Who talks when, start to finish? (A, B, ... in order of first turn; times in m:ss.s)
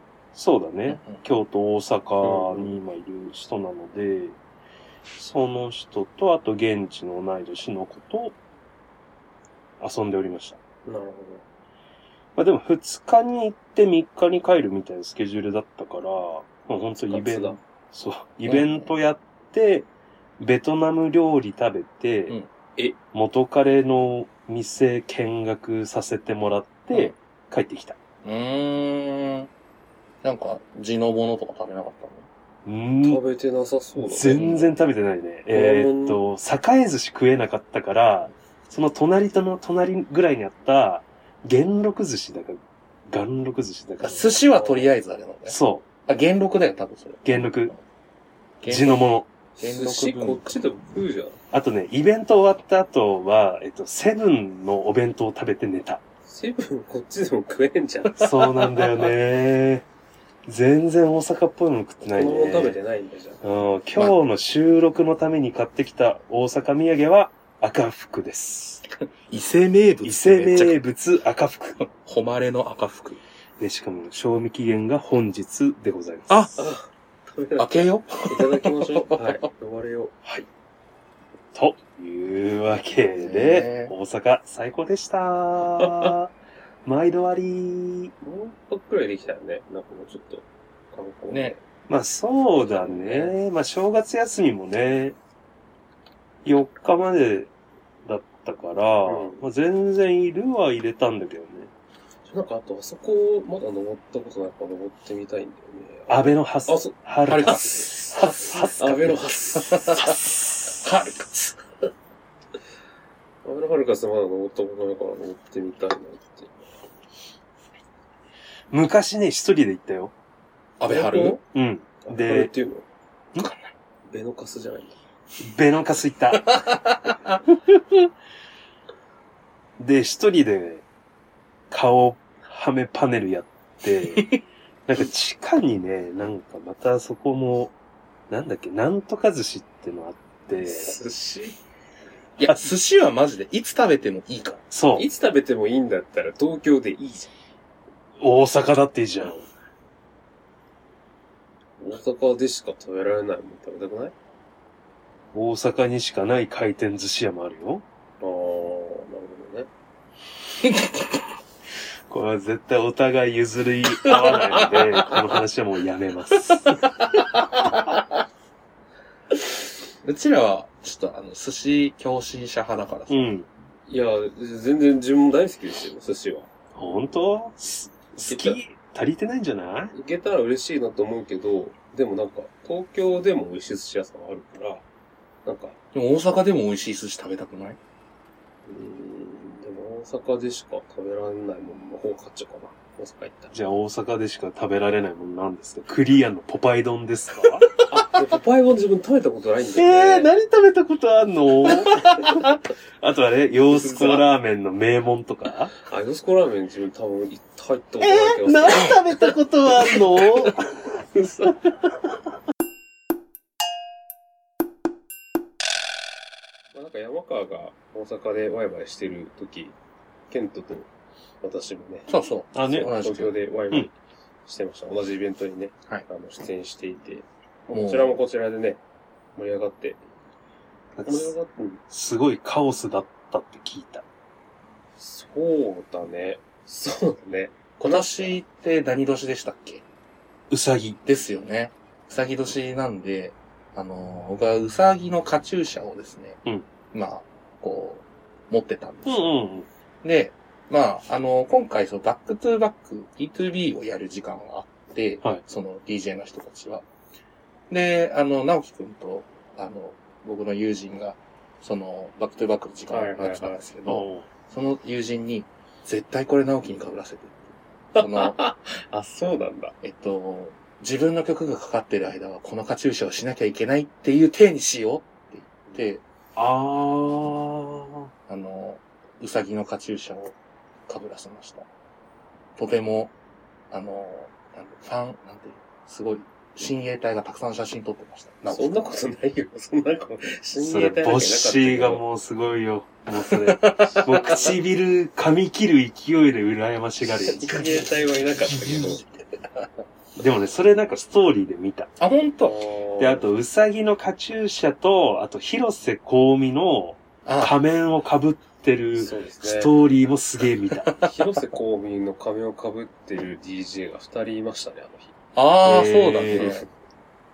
0:00.3-0:04.4 A
0:00.9-0:01.2 B
0:02.2-0:02.8 C
0:05.2-0:08.4 A
0:09.8-0:10.6 A
0:10.8-0:11.4 C
0:12.4-0:19.9 A
0:17.0-0:17.6 C
0:18.5-0:18.9 B
0:20.4-0:22.4 A
0:23.1-0:28.0 A
0:28.2-0:29.5 B
0:30.2-0:32.3 B
0:32.6-0:33.2 A
0:33.0-0:34.5 C
0:34.0-0:44.4 A
0:34.3-0:34.7 B
0:35.5-0:36.2 C
0:44.0-0:47.8 B
0:44.4-0:44.9 C
0:45.5-0:45.8 A
0:47.2-0:47.7 A
0:48.6-0:50.6 B
0:48.7-0:49.3 A
0:49.6-0:51.4 C
0:51.5-0:56.0 A
0:56.3-0:58.3 C
0:58.2-0:59.1 B
0:58.2-0:59.8 A
1:00.5-1:02.8 A
1:02.0-1:03.4 C
1:03.4-1:08.8 A
1:09.3-1:10.8 B
1:10.0-1:11.8 A
1:11.8-1:13.2 B
1:13.6-1:16.5 A
1:16.3-1:16.6 B
1:16.6-1:20.2 C
1:17.6-1:19.4 B
1:21.6-1:26.3 A
1:23.2-1:23.9 B
1:25.8-1:26.1 C
1:26.8-1:28.1 A
1:28.2-1:31.6 C
1:31.3-1:31.6 B
1:31.9-1:35.2 A
1:32.6-1:33.4 C
1:36.4-1:37.5 A
1:38.0-1:41.7 A
1:39.1-1:39.4 C
1:42.3-1:47.0 C
1:46.1-1:49.2 A
1:47.3-1:48.7 B
1:48.2-1:50.1 C
1:49.7-1:51.6 B
1:50.0-1:50.7 A
1:53.4-1:56.7 C
1:58.7-2:00.1 A
2:00.8-2:01.4 B
2:00.9-2:01.4 C
2:01.5-2:02.5 A
2:02.0-2:02.9 C
2:03.4-2:03.7 B
2:04.1-2:05.0 C
2:05.4-2:06.7 A
2:06.4-2:07.4 B
2:09.8-2:10.8 A
2:11.7-2:14.3 A
2:14.9-2:17.7 A
2:18.3-2:21.0 A
2:20.6-2:21.6 C
2:22.4-2:24.6 B
2:22.4-2:22.7 A
2:24.7-2:25.1 A
2:25.0-2:27.3 C
2:28.2-2:29.5 A
2:31.8-2:34.2 C
2:35.3-2:37.8 A
2:38.2-2:39.7 C
2:40.6-2:41.0 B
2:42.1-2:47.1 A
2:44.0-2:44.9 B
2:46.5-2:48.0 B
2:50.0-2:53.3 B
2:53.1-2:53.5 A
2:53.9-2:56.5 C
2:56.8-2:59.9 A
2:58.3-2:58.6 C
2:59.9-3:04.8 C
3:05.4-3:05.8 C
3:05.9-3:07.8 B
3:08.7-3:13.5 C
3:13.5-3:17.8 A
3:17.9-3:20.3 C
3:19.8-3:22.4 A
3:22.0-3:22.5 C
3:23.0-3:25.8 A
3:23.7-3:24.3 C
3:25.8-3:30.6 C
3:28.0-3:31.0 A
3:31.1-3:31.7 C
3:36.7-3:39.8 C
3:40.3-3:40.9 C
3:41.4-3:43.9 C
3:42.1-3:43.4 B
3:42.5-3:43.0 A
3:44.4-3:48.8 C
3:47.7-3:48.2 B
3:49.4-3:50.0 C
3:51.0-3:51.3 A
3:51.1-3:51.8 C
3:51.9-3:54.0 A
3:55.0-3:58.4 C
3:57.8-3:59.8 B
4:00.5-4:01.0 A
4:01.1-4:06.4 B
4:06.9-4:09.3 B
4:09.1-4:09.7 A
4:10.0-4:16.9 B
4:17.7-4:28.4 B
4:22.9-4:23.7 C
4:23.9-4:24.3 A
4:28.0-4:29.7 C
4:29.8-4:36.0 B
4:36.4-4:38.1 A
4:38.3-4:40.4 B
4:40.9-4:41.7 B
4:42.6-4:43.1 B
4:43.7-4:48.8 B
4:48.5-4:52.0 C
4:50.6-4:57.5 A
4:53.3-4:54.4 B
4:53.9-4:54.6 C
4:57.2-4:59.0 C
4:57.3-4:57.9 B
4:58.5-4:59.6 B
5:00.2-5:01.9 A
5:02.0-5:02.6 B
5:02.4-5:03.3 C
5:03.0-5:10.9 A
5:07.3-5:07.5 B
5:09.0-5:09.7 C
5:11.0-5:15.1 C
5:15.4-5:16.7 B
5:15.6-5:16.5 A
5:16.3-5:16.7 C